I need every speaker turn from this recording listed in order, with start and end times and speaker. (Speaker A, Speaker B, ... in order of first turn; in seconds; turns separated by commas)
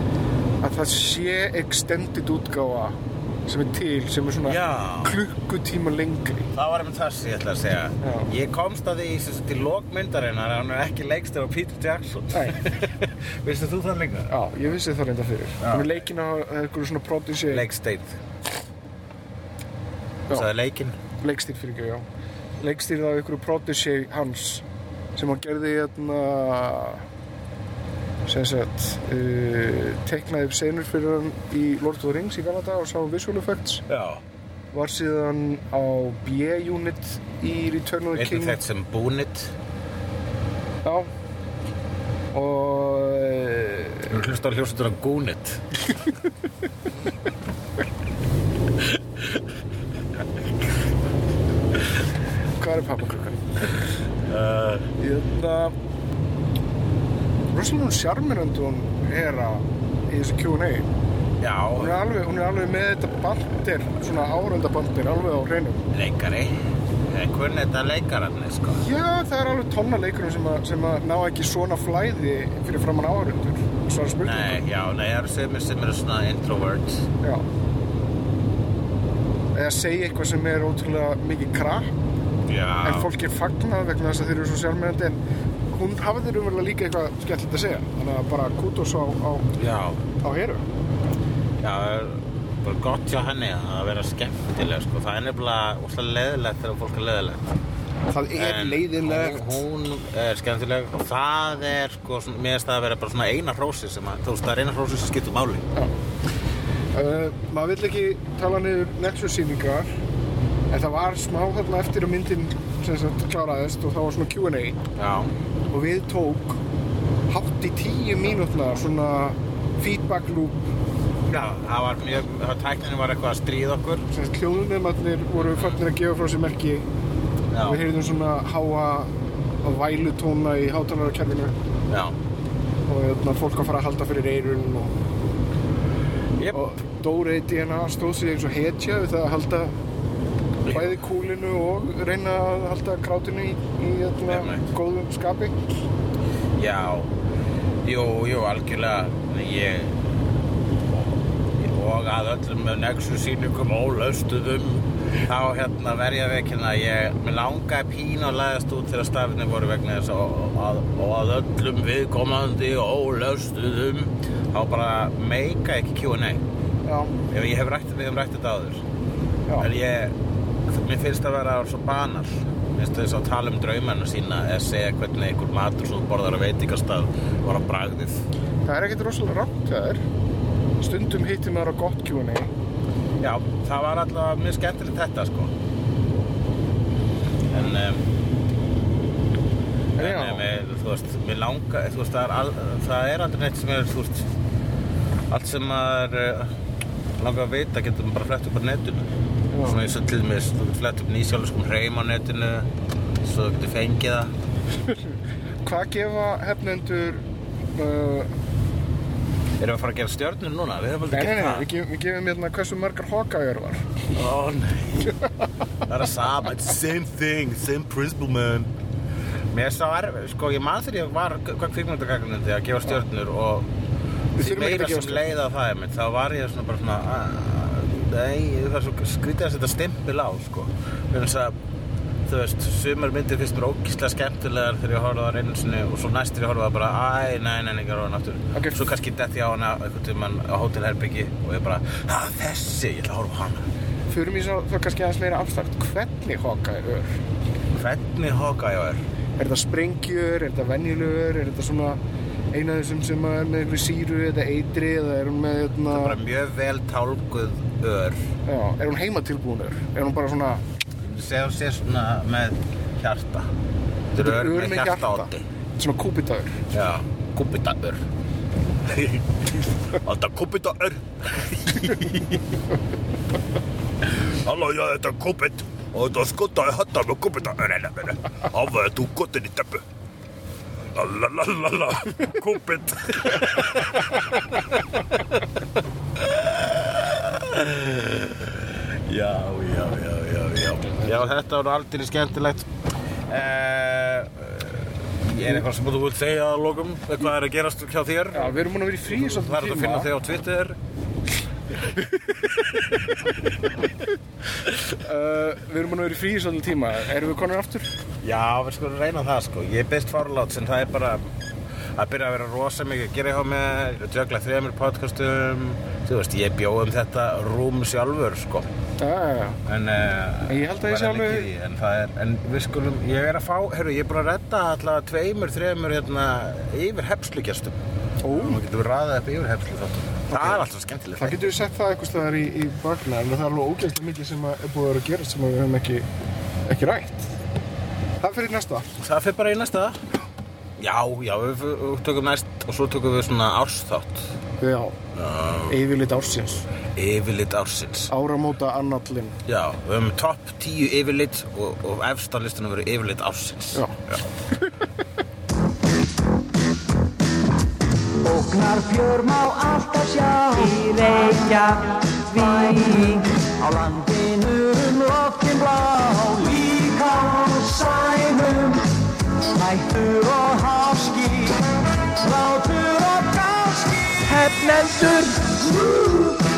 Speaker A: 0.6-6.5, Speaker B: 4.5-5.2, Speaker B: 6.5-14.3, Speaker A: 8.0-8.3, Speaker A: 12.3-12.6, Speaker A: 14.3-17.7, Speaker B: 15.6-16.1, Speaker B: 17.5-18.2, Speaker B: 20.3-21.0, Speaker A: 21.2-22.1, Speaker A: 22.6-27.1, Speaker A: 28.3-33.8, Speaker B: 33.9-34.2, Speaker A: 34.7-38.6, Speaker B: 38.2-39.5, Speaker A: 40.8-41.1, Speaker A: 42.3-44.1, Speaker B: 44.1-45.6, Speaker A: 52.6-53.7, Speaker B: 54.3-54.9, Speaker A: 55.0-55.7, Speaker A: 57.5-60.9, Speaker B: 61.4-62.0, Speaker A: 61.8-65.8, Speaker B: 65.9-66.5, Speaker B: 67.1-68.8, Speaker A: 68.8-74.6, Speaker B: 74.2-77.1, Speaker A: 79.5-81.9, Speaker B: 82.5-83.1, Speaker A: 82.8-89.5, Speaker B: 89.6-90.0, Speaker A: 90.2-90.6, Speaker B: 91.6-97.5, Speaker A: 98.1-99.6, Speaker B: 98.4-105.6, Speaker A: 106.9-109.9, Speaker A: 110.7-114.8, Speaker B: 115.0-115.3, Speaker A: 115.7-116.6, Speaker A: 117.3-120.6, Speaker B: 121.3-124.0, Speaker A: 124.1-126.9, Speaker B: 127.5-127.9, Speaker A: 127.6-131.6, Speaker B: 131.9-132.1, Speaker A: 132.9-135.0, Speaker A: 136.5-139.8, Speaker B: 140.7-141.0, Speaker A: 140.7-145.8, Speaker B: 144.3-144.6, Speaker B: 146.6-147.1, Speaker B: 147.8-150.0, Speaker B: 150.9-166.4, Speaker A: 166.8-167.1, Speaker B: 167.3-168.8, Speaker B: 169.6-170.1, Speaker B: 170.7-178.2, Speaker A: 178.6-180.0, Speaker A: 180.8-182.5, Speaker B: 183.2-185.5, Speaker B: 187.5-188.1, Speaker A: 190.0-190.5, Speaker B: 190.0-194.3, Speaker B: 195.3-196.5, Speaker B: 197.2-199.1, Speaker A: 199.5-199.8, Speaker B: 199.6-202.7, Speaker B: 203.2-204.3, Speaker A: 204.9-208.3, Speaker B: 209.6-211.7, Speaker A: 211.1-213.9, Speaker B: 214.1-215.2, Speaker B: 215.8-218.7, Speaker B: 219.5-223.7, Speaker A: 224.4-225.3, Speaker B: 224.4-231.6, Speaker B: 232.3-243.7, Speaker A: 238.6-238.8, Speaker A: 244.1-247.2, Speaker B: 247.7-249.0, Speaker A: 249.4-252.0, Speaker A: 252.5-256.2, Speaker B: 255.9-258.2, Speaker A: 258.4-260.6, Speaker B: 261.0-263.5, Speaker B: 264.1-265.4, Speaker A: 264.1-266.6, Speaker B: 266.7-268.0, Speaker B: 268.8-272.4, Speaker B: 274.0-279.8, Speaker B: 280.9-285.6, Speaker B: 286.2-292.7, Speaker A: 291.0-291.2, Speaker B: 293.3-300.8, Speaker A: 298.3-300.1, Speaker A: 301.8-302.9, Speaker A: 304.9-307.9, Speaker B: 308.2-311.3, Speaker B: 311.9-318.7, Speaker A: 319.0-319.6, Speaker B: 319.7-327.7, Speaker A: 320.5-321.5, Speaker A: 328.2-328.6, Speaker B: 328.3-331.5, Speaker A: 330.3-336.1, Speaker A: 336.7-337.3, Speaker A: 338.2-338.9, Speaker B: 339.0-340.0, Speaker B: 340.8-344.3, Speaker A: 344.6-345.0, Speaker B: 345.2-345.8, Speaker A: 345.7-346.7, Speaker B: 346.9-348.1, Speaker A: 348.1-349.4, Speaker B: 349.5-354.2, Speaker C: 358.2-368.9, Speaker C: 369.5-376.4